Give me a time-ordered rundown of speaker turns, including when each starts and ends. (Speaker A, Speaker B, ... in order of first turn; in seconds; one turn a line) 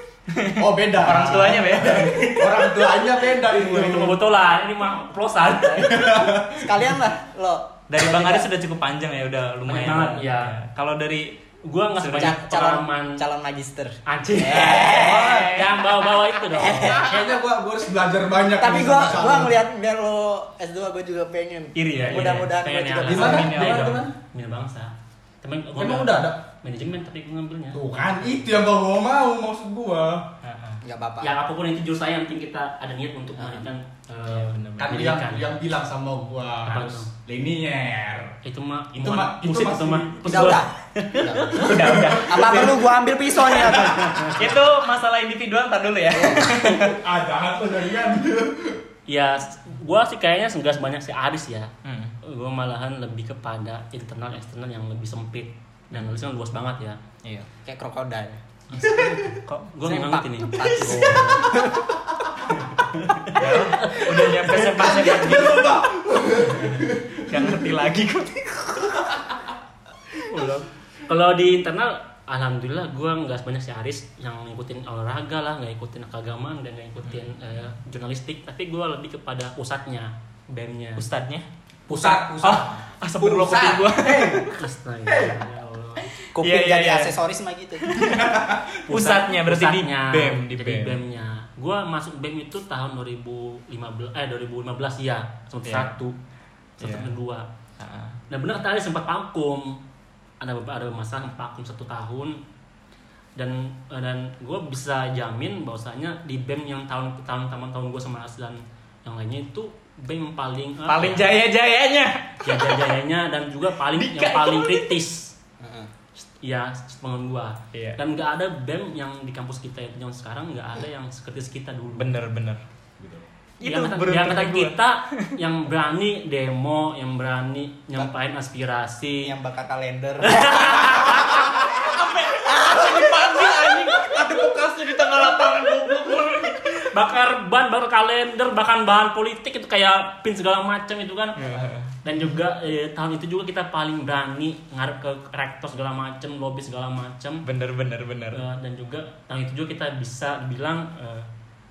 Speaker A: 0.3-2.6
Speaker B: 0.5-4.2
Speaker C: 1.9-2.4
Speaker C: 3.4-6.1
Speaker D: 5.8-8.5
Speaker B: 5.9-7.0
Speaker A: 7.9-11.4
Speaker C: 9.7-10.6
Speaker C: 11.6-13.2
Speaker A: 11.9-12.4
Speaker D: 12.2-17.2
Speaker C: 14.1-17.0
Speaker A: 14.6-15.7
Speaker B: 14.7-15.5
Speaker B: 16.9-19.6
Speaker D: 18.6-23.4
Speaker A: 21.7-24.1
Speaker C: 22.1-27.8
Speaker B: 23.1-24.1
Speaker B: 25.8-26.4
Speaker B: 27.7-30.3
Speaker A: 30.4-30.8
Speaker D: 30.8-31.3
Speaker C: 31.2-35.5
Speaker D: 33.4-33.6
Speaker A: 34.2-35.0
Speaker B: 34.8-38.4
Speaker C: 36.6-37.1
Speaker C: 38.4-41.7
Speaker B: 38.9-40.5
Speaker D: 40.2-41.6
Speaker A: 41.5-42.9
Speaker B: 41.6-42.5
Speaker D: 42.1-44.6
Speaker A: 43.5-47.0
Speaker C: 44.0-44.4
Speaker D: 46.1-46.5
Speaker B: 46.7-48.8
Speaker C: 49.1-57.0
Speaker A: 51.8-52.1
Speaker A: 55.9-56.2
Speaker A: 57.2-57.5
Speaker D: 57.6-58.4
Speaker C: 58.7-61.5
Speaker D: 59.8-61.9
Speaker B: 60.9-61.2
Speaker B: 62.1-62.6
Speaker C: 63.0-64.3
Speaker A: 63.3-65.8
Speaker B: 64.3-67.5
Speaker A: 66.5-69.1
Speaker B: 69.1-69.3
Speaker C: 70.3-81.0
Speaker A: 77.0-77.3
Speaker A: 81.0-81.5
Speaker C: 81.9-82.2
Speaker B: 81.9-84.4
Speaker A: 82.4-84.6
Speaker C: 84.5-86.1
Speaker B: 85.1-85.4
Speaker A: 86.2-87.2
Speaker D: 86.3-88.0
Speaker A: 87.9-88.3
Speaker B: 88.0-88.8
Speaker C: 88.9-96.2
Speaker A: 88.9-91.0
Speaker A: 95.6-95.9
Speaker C: 96.8-97.5
Speaker A: 96.8-97.1
Speaker A: 97.8-98.2
Speaker C: 98.3-99.8
Speaker C: 100.4-102.4
Speaker C: 103.3-111.4
Speaker A: 110.8-113.0
Speaker C: 112.4-115.3
Speaker A: 113.8-115.0
Speaker D: 115.6-115.9
Speaker C: 116.2-122.1
Speaker A: 117.7-118.0
Speaker A: 122.0-122.6
Speaker B: 123.0-123.2
Speaker A: 123.6-125.3
Speaker C: 123.6-129.3
Speaker D: 129.2-136.3
Speaker C: 130.2-131.5
Speaker A: 131.3-136.7
Speaker C: 136.9-141.5
Speaker A: 141.4-141.9
Speaker C: 142.0-147.4
Speaker A: 147.4-148.4
Speaker C: 148.3-151.3